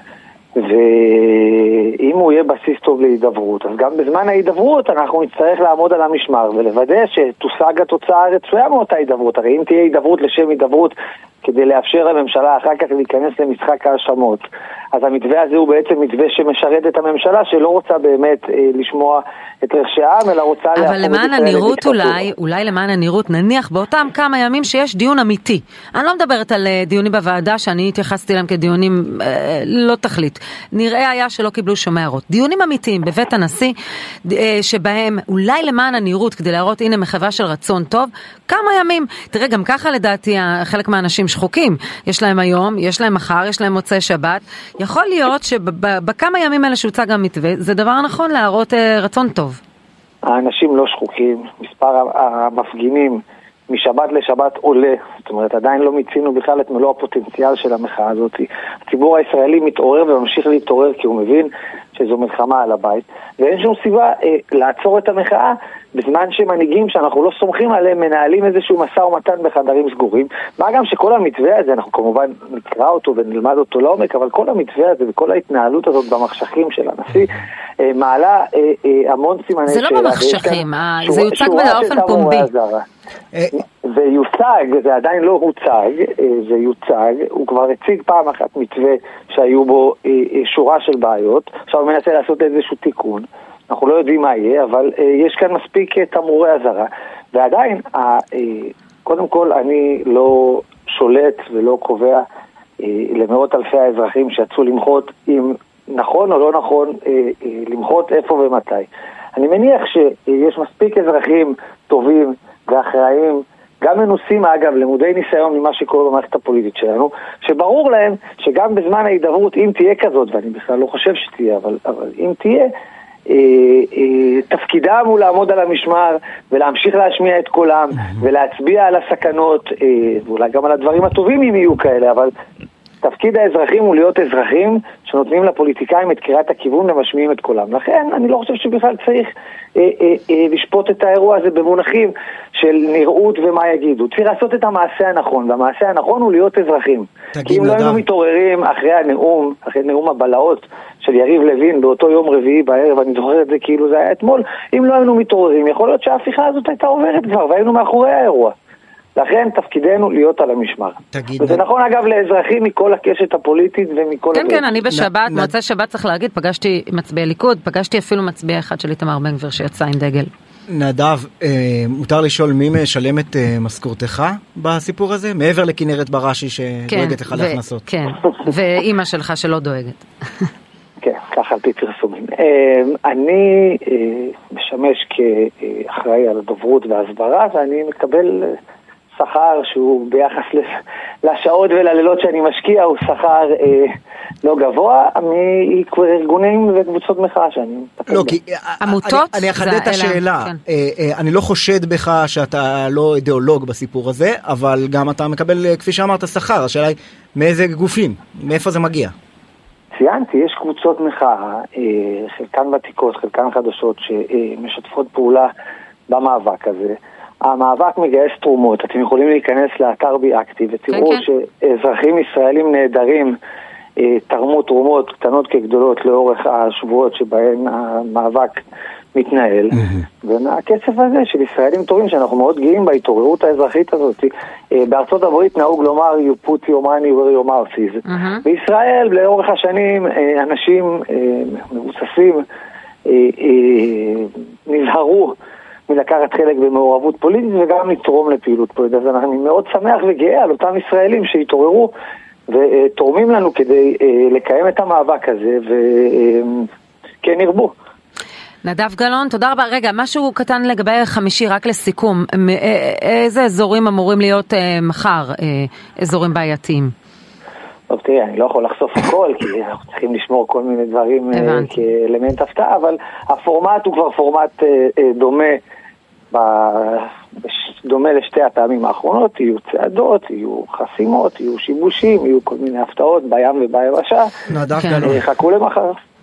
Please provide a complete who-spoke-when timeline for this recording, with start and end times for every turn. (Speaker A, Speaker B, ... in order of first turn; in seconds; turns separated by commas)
Speaker A: 0.6-22.2, Speaker B: 20.8-33.7, Speaker B: 34.2-49.6, Speaker A: 50.2-82.8, Speaker B: 79.7-82.5, Speaker A: 83.8-102.2, Speaker A: 102.8-122.7, Speaker A: 123.3-132.3, Speaker A: 133.0-158.5, Speaker C: 147.3-148.0, Speaker A: 159.2-164.7, Speaker C: 161.1-161.6, Speaker B: 164.3-170.3, Speaker C: 164.9-165.5, Speaker C: 170.7-177.8, Speaker B: 176.9-180.5, Speaker A: 181.0-188.5, Speaker A: 189.2-190.7, Speaker A: 191.2-198.4, Speaker C: 198.1-209.1, Speaker B: 198.8-200.6, Speaker A: 209.9-215.5, Speaker A: 216.1-223.3, Speaker B: 220.9-221.2, Speaker A: 224.0-228.6, Speaker A: 229.1-242.4, Speaker B: 238.0-238.4, Speaker A: 243.1-245.3, Speaker A: 245.9-251.9, Speaker A: 252.5-256.7, Speaker A: 257.2-257.7, Speaker B: 258.6-266.9, Speaker A: 267.9-275.6, Speaker B: 271.3-271.8, Speaker A: 276.3-284.4, Speaker C: 284.5-285.2, Speaker B: 284.8-285.2, Speaker A: 285.0-286.0